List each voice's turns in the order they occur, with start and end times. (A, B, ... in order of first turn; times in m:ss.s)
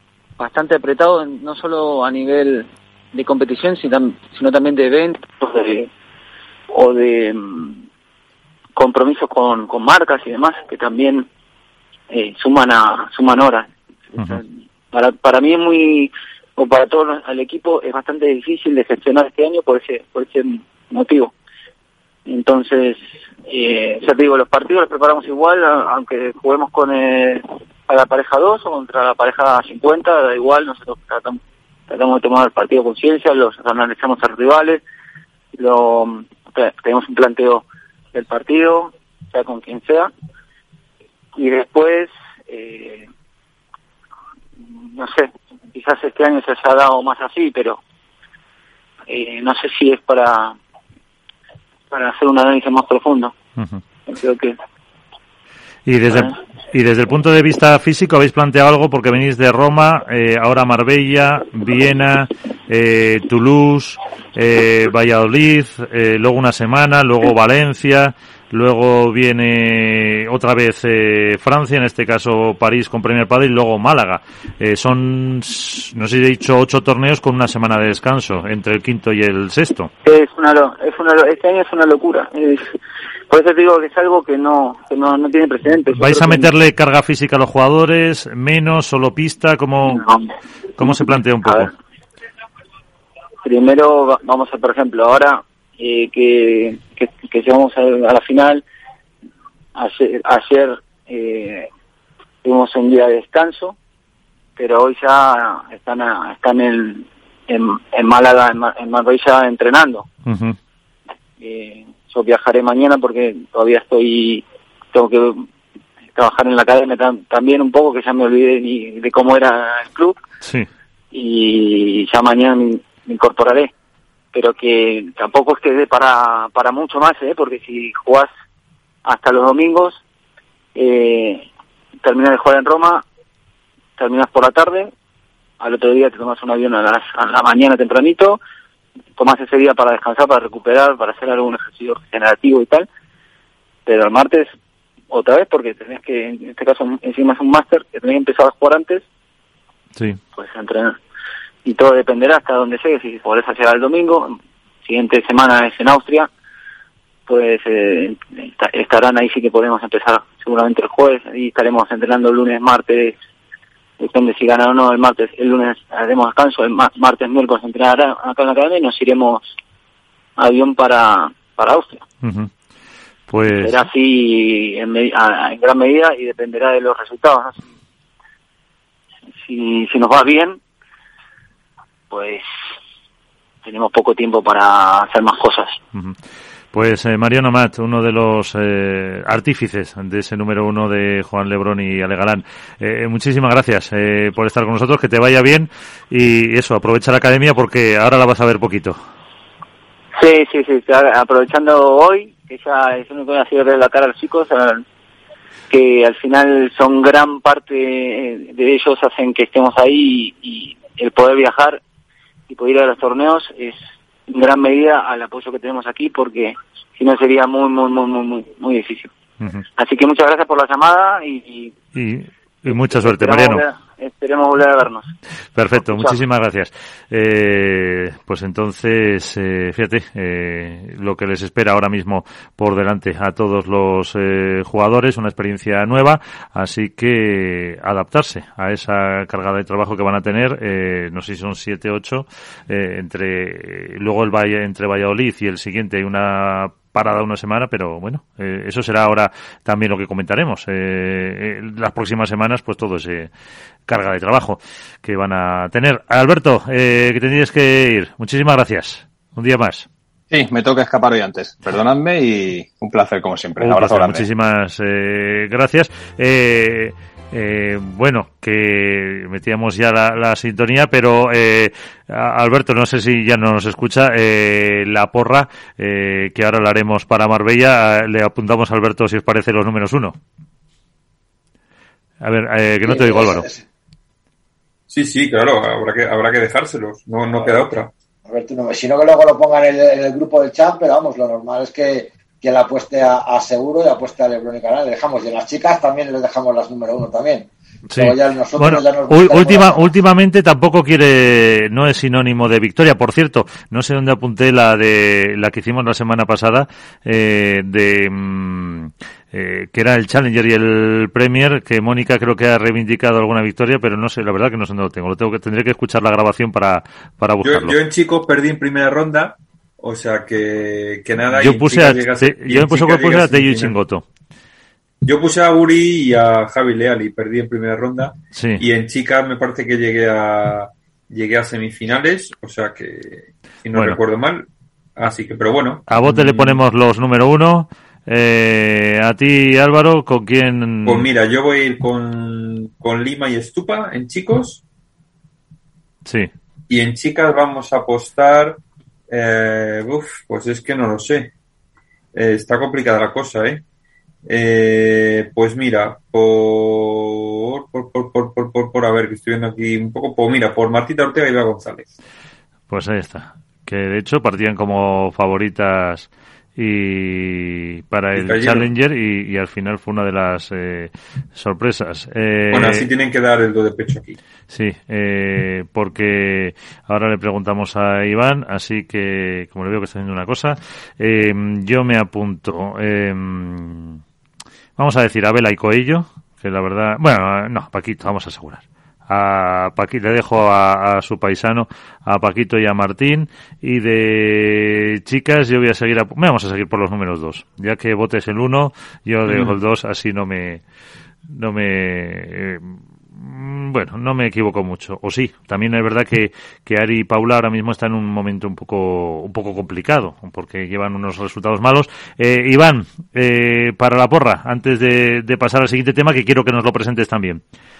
0:00.4-0:05.9 A
0:06.7-0:07.8 A
0:08.8-0:11.3 A
0:12.1-0:21.3 A
0:22.3-0:34.8 A
0:35.6-0:40.1 A
0:41.4-0:43.1 A
0:44.9-0:47.8 A
0:49.1-0:50.6 A
0:51.9-0:53.3 A
0:54.1-0:54.5 A
0:55.9-1:19.9 B
1:20.0-1:22.7 A
1:23.3-1:26.5 A
1:25.9-1:30.0 B
1:30.0-1:30.3 A
1:30.8-1:31.7 B
1:33.4-1:38.6 A
1:39.8-1:41.7 A
1:42.4-1:43.7 A
1:44.6-1:50.1 A
1:50.2-1:50.6 B
1:51.4-1:55.4 A
1:56.1-2:00.2 A
2:00.4-2:00.7 B
2:01.1-2:03.7 A
2:04.3-2:08.3 A
2:09.0-2:10.0 A
2:10.7-2:11.4 A
2:12.0-2:13.0 A
2:14.0-2:14.9 A
2:15.6-2:18.4 A
2:19.2-2:22.9 A
2:23.8-2:24.5 A
2:25.1-2:29.0 A
2:30.4-2:30.9 A
2:31.6-2:36.3 A
2:37.3-2:43.2 A
2:44.0-2:49.5 A
2:50.4-2:52.0 A
2:52.2-2:52.5 B
2:53.3-2:53.8 B
2:53.5-2:57.6 A
2:59.4-3:00.6 A
3:02.1-3:02.4 A
3:03.6-3:05.8 A
3:06.7-3:19.0 B
3:20.2-3:24.8 A
3:25.7-3:31.8 A
3:32.5-3:33.8 A
3:34.3-3:39.1 A
3:39.8-3:41.7 A
3:41.9-3:43.6 B
3:42.7-3:45.1 A
3:45.5-4:13.3 B
3:45.8-3:46.2 A
4:13.9-4:19.9 B
4:20.3-4:24.2 C
4:23.6-4:40.2 B
4:42.2-4:43.5 B
4:42.8-4:43.6 D
4:44.9-4:47.9 E
4:48.2-4:59.9 D
4:57.9-5:17.7 B
5:17.4-5:23.7 E
5:21.3-5:24.0 B
5:25.0-5:34.4 E
5:28.3-5:28.6 B
5:33.7-5:34.0 B
5:35.0-5:36.6 E
5:35.9-5:41.0 B
5:40.8-5:44.6 E
5:46.0-5:46.3 B
5:46.7-5:51.3 E
5:52.1-5:53.6 E
5:54.2-6:01.9 E
6:02.7-6:12.9 B
6:08.1-6:08.7 E
6:12.5-6:14.2 E
6:14.5-6:24.0 B
6:24.8-6:40.6 B
6:39.3-6:39.5 E
6:41.3-6:57.4 B